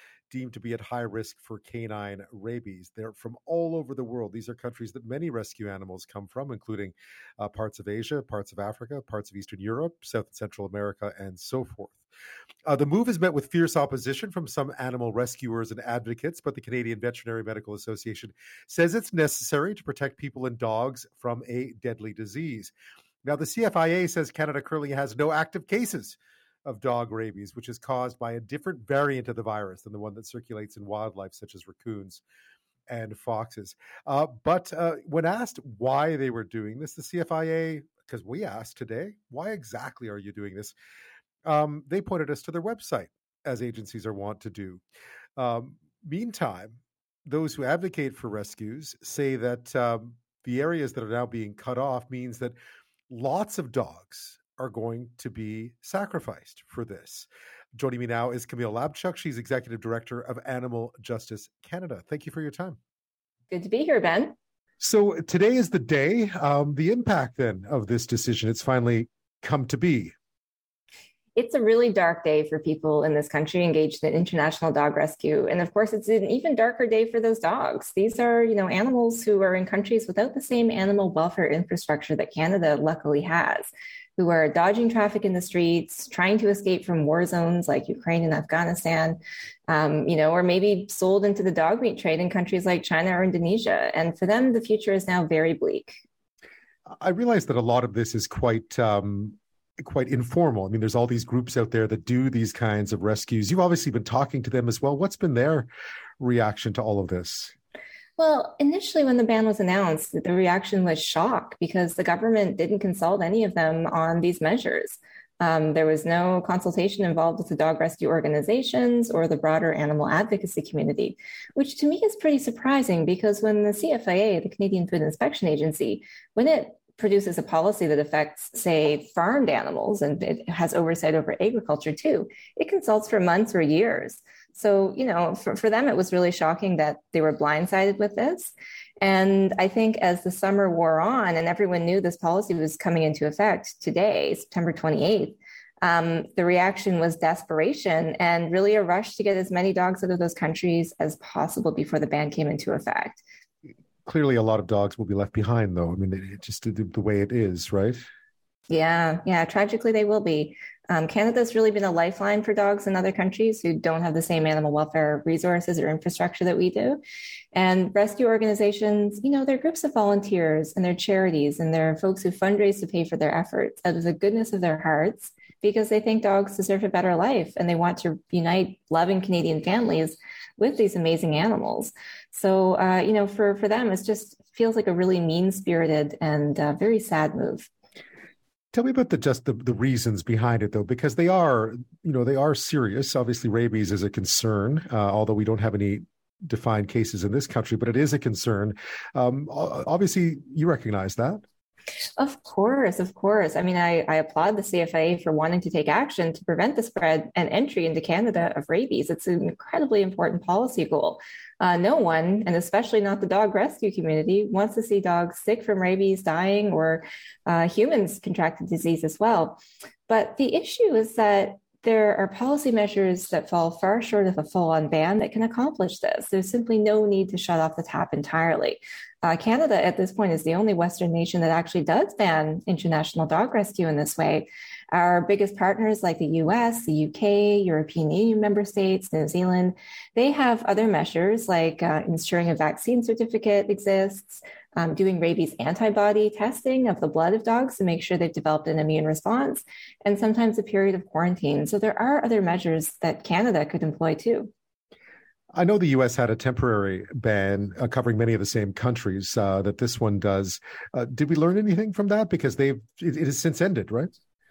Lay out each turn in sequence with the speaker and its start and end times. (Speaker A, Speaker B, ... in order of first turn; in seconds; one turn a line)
Speaker A: 0.3-12.0
Speaker A: 12.7-22.7
Speaker A: 23.2-32.2
Speaker A: 32.9-40.7
Speaker A: 41.4-44.8
Speaker A: 45.4-52.5
Speaker A: 53.1-62.8
Speaker B: 63.5-64.3
Speaker A: 64.8-70.1
Speaker B: 71.3-96.0
Speaker A: 97.0-105.7
Speaker A: 106.2-107.5
Speaker B: 108.2-153.2
Speaker A: 154.1-158.0
Speaker B: 158.7-167.0
Speaker B: 167.5-187.7
Speaker A: 188.7-201.4
Speaker B: 202.2-254.5
Speaker A: 255.5-264.1